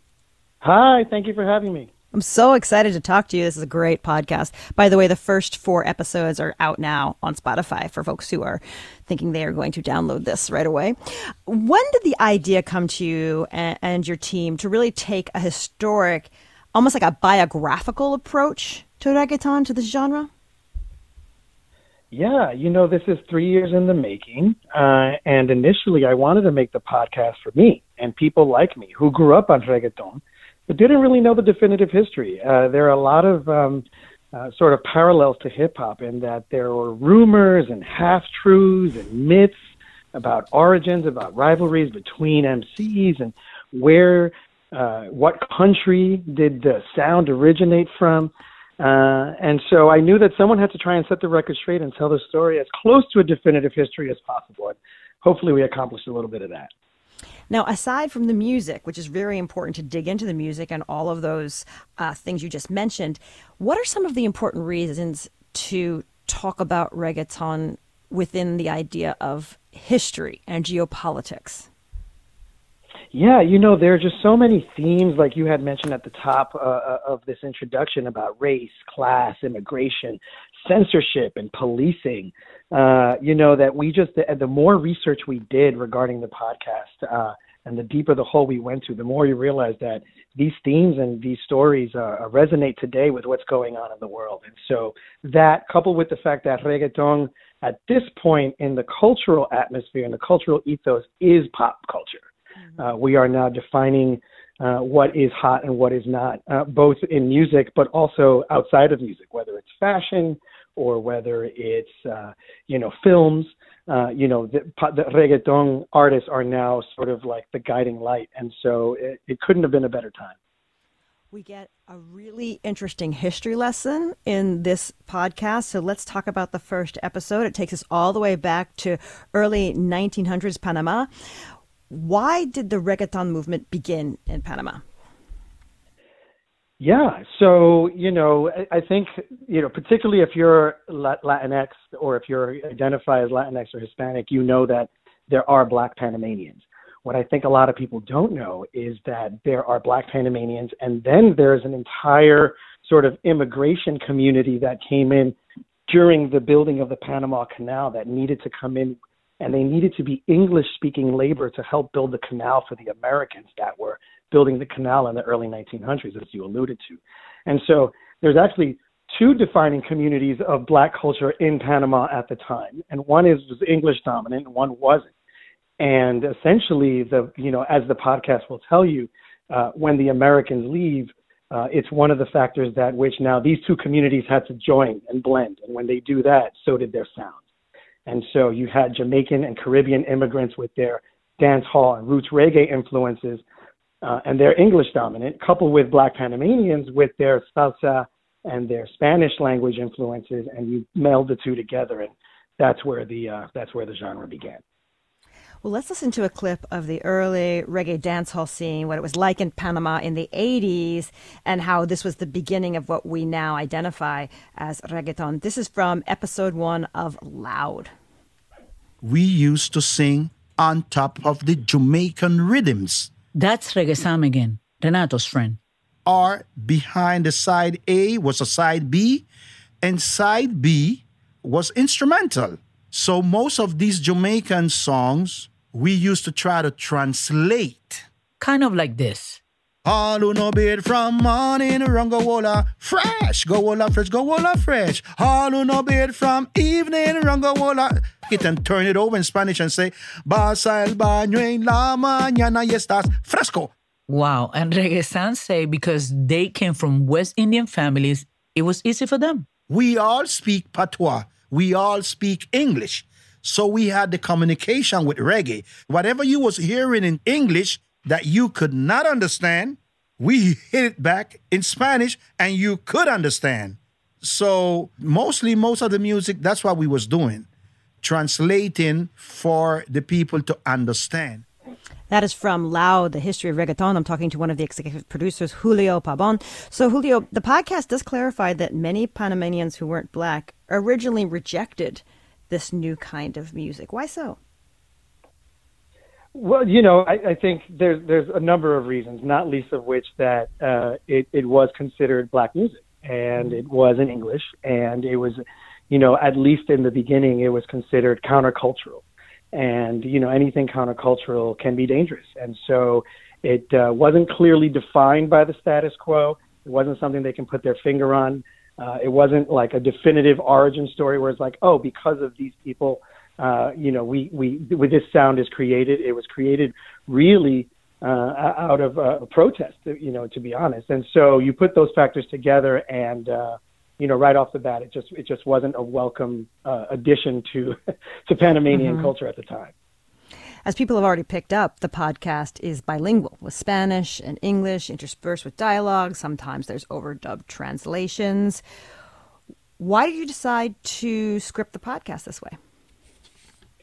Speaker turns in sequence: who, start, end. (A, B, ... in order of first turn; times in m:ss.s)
0:00.6-0:01.9 A
0:02.1-0:20.3 B
0:22.1-0:39.6 A
0:40.1-0:56.7 A
0:57.5-1:11.7 B
1:13.1-1:42.3 A
1:42.8-2:00.4 A
2:01.3-2:11.1 B
2:11.9-2:14.8 B
2:16.8-2:35.4 A
2:35.9-2:55.1 A
2:55.8-3:07.4 A
3:08.1-3:13.4 A
3:14.0-3:24.6 A
3:25.6-3:37.9 B
3:39.0-3:43.1 C
3:43.4-3:45.6 D
3:46.1-3:49.3 C
3:49.8-3:58.1 C
3:58.4-3:59.4 D
3:59.8-4:13.7 C
4:14.1-4:19.5 D
4:19.7-4:37.5 C
4:38.0-4:41.4 C
4:42.1-4:54.4 B
4:56.3-5:39.7 A
5:38.7-5:39.1 B
5:40.7-5:48.6 B
5:49.8-5:52.6 B